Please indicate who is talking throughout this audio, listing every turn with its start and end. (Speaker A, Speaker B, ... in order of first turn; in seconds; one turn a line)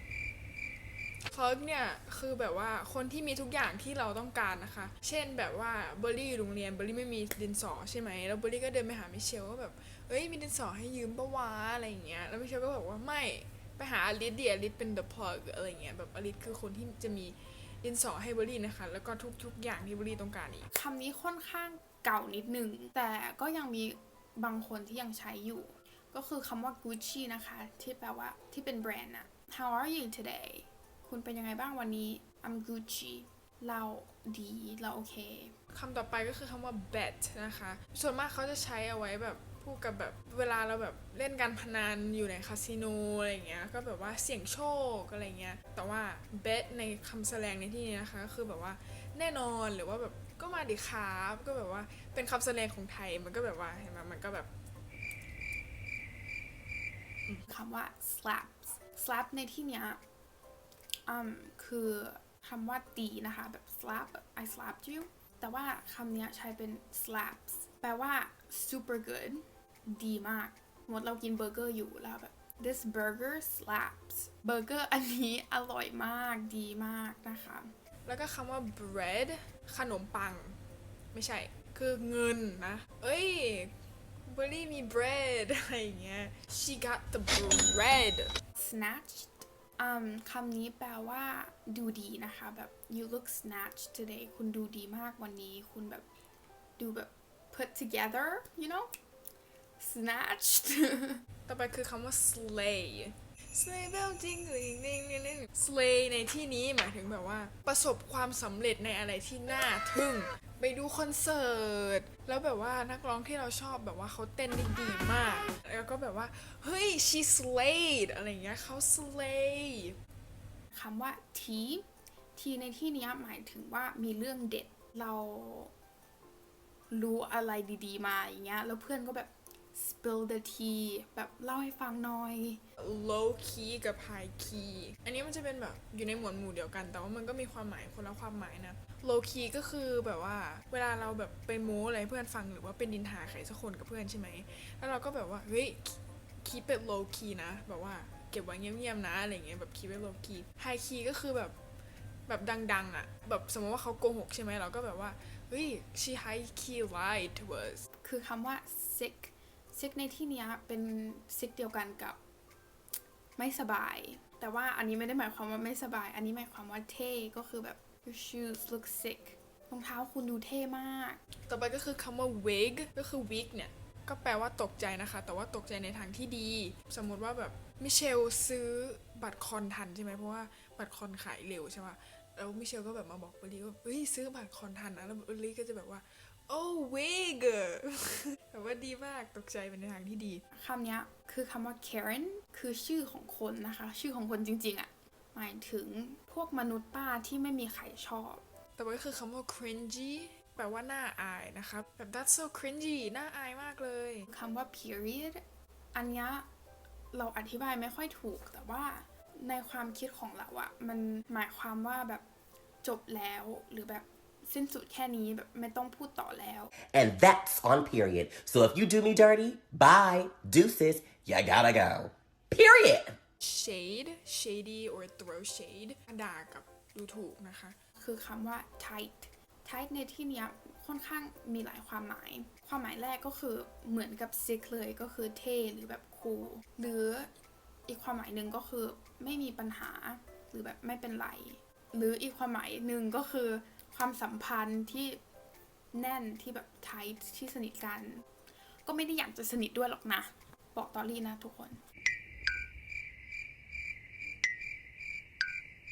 Speaker A: 1.3-20.7
Speaker B: 20.7-35.5
Speaker A: 35.7-54.5
Speaker B: 57.5-60.0
Speaker B: 61.1-77.7
Speaker A: 78.0-80.6
Speaker A: 81.1-83.7
Speaker A: 84.3-88.3
Speaker B: 88.5-96.0
Speaker B: 96.8-98.9
Speaker B: 99.8-101.2
Speaker A: 101.5-119.9
Speaker B: 120.7-121.8
Speaker B: 122.3-125.7
Speaker B: 126.9-132.6
Speaker A: 132.8-151.5
Speaker A: 152.3-157.8
Speaker B: 158.0-162.2
Speaker B: 163.4-171.2
Speaker A: 171.5-190.4
Speaker B: 190.5-198.4
Speaker A: 198.8-204.3
Speaker B: 204.3-205.4
Speaker B: 205.9-206.5
Speaker B: 207.1-212.2
Speaker B: 212.8-216.7
Speaker C: 216.9-223.2
Speaker A: 223.4-227.8
Speaker B: 228.0-237.3
Speaker B: 237.9-245.2
Speaker B: 245.9-248.2
Speaker B: 248.8-251.8